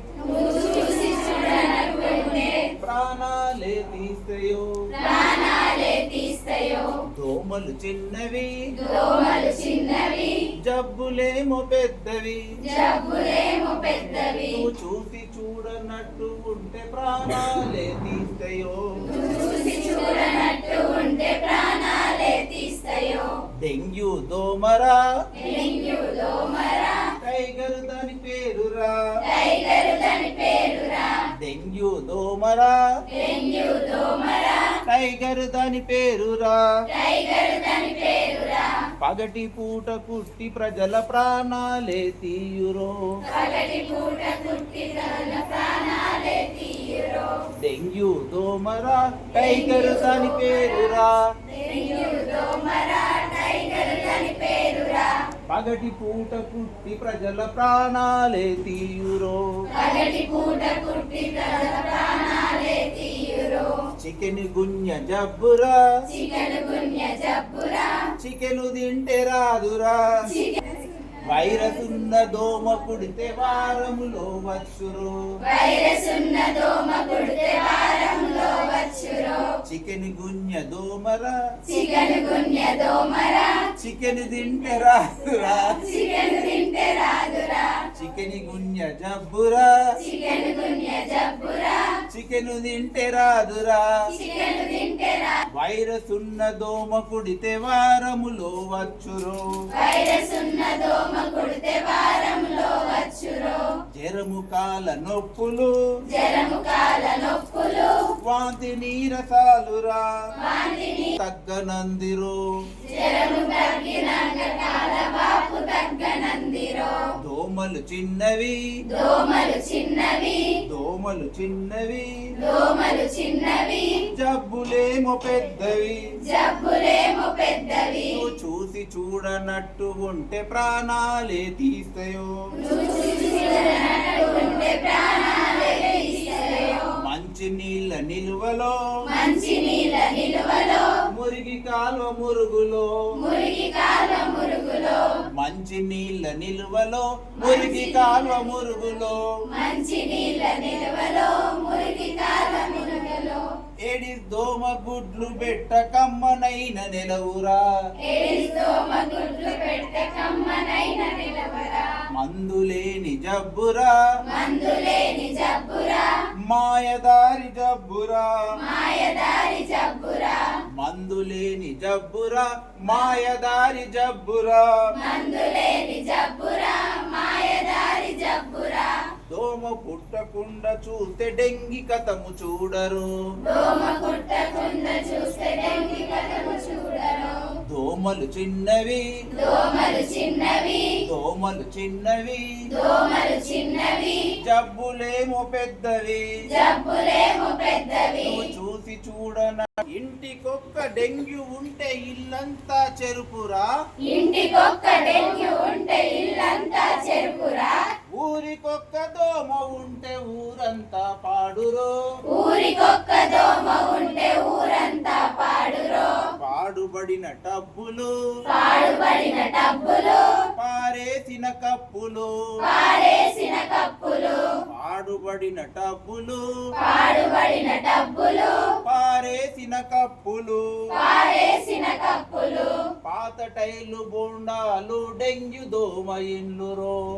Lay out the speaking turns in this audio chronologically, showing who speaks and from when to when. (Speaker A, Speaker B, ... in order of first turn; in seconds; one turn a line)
Speaker A: 0.2-2.7
Speaker B: 2.8-4.6
Speaker A: 4.9-7.0
Speaker B: 7.1-8.5
Speaker A: 8.7-10.4
Speaker B: 10.7-12.4
Speaker A: 12.6-14.6
Speaker B: 14.4-19.1
Speaker A: 19.1-23.3
Speaker B: 23.6-25.0
Speaker A: 25.3-27.1
Speaker B: 27.2-29.0
Speaker A: 29.2-31.3
Speaker B: 31.4-32.8
Speaker A: 33.1-34.8
Speaker B: 34.9-36.6
Speaker A: 36.9-38.9
Speaker B: 39.0-43.0
Speaker A: 43.2-47.4
Speaker B: 47.6-51.2
Speaker A: 49.4-50.5
Speaker A: 51.5-55.2
Speaker B: 55.5-59.4
Speaker A: 59.7-63.8
Speaker B: 64.0-65.8
Speaker A: 66.1-68.1
Speaker B: 68.2-70.3
Speaker A: 70.3-70.6
Speaker B: 71.2-75.2
Speaker A: 75.4-79.5
Speaker B: 79.7-81.3
Speaker A: 81.7-83.7
Speaker B: 83.8-85.8
Speaker A: 85.7-87.8
Speaker B: 87.9-89.7
Speaker A: 90.0-92.0
Speaker B: 92.1-93.9
Speaker A: 94.1-95.4
Speaker B: 95.5-99.5
Speaker A: 99.7-103.8
Speaker B: 104.0-105.7
Speaker A: 106.1-108.0
Speaker B: 108.2-110.1
Speaker A: 110.4-111.2
Speaker B: 111.2-112.4
Speaker A: 112.8-117.1
Speaker B: 117.2-118.6
Speaker A: 118.9-120.6
Speaker B: 120.7-122.1
Speaker A: 122.4-124.0
Speaker B: 124.1-126.0
Speaker A: 126.2-128.2
Speaker B: 128.1-132.3
Speaker A: 132.6-136.9
Speaker B: 137.0-138.8
Speaker A: 139.1-141.0
Speaker B: 141.1-142.9
Speaker A: 143.2-145.2
Speaker B: 145.3-149.2
Speaker A: 147.4-148.1
Speaker A: 149.5-153.5
Speaker B: 153.8-157.6
Speaker A: 158.0-162.0
Speaker B: 162.1-163.9
Speaker A: 164.2-166.1
Speaker B: 166.5-168.4
Speaker A: 168.6-170.6
Speaker B: 170.8-174.7
Speaker A: 174.9-179.1
Speaker B: 179.3-183.1
Speaker A: 183.4-187.5
Speaker B: 187.6-189.1
Speaker A: 189.3-191.0
Speaker B: 191.0-192.4
Speaker A: 192.7-194.3
Speaker B: 194.4-196.2
Speaker A: 196.5-198.4
Speaker B: 198.2-203.7
Speaker A: 204.0-207.8
Speaker B: 208.1-211.9
Speaker A: 212.3-216.3
Speaker B: 216.4-218.1
Speaker A: 218.5-220.4
Speaker B: 220.6-222.3
Speaker A: 222.6-224.6
Speaker B: 224.7-226.4
Speaker A: 226.8-228.7
Speaker B: 228.8-230.7
Speaker A: 230.9-232.9
Speaker B: 233.0-237.0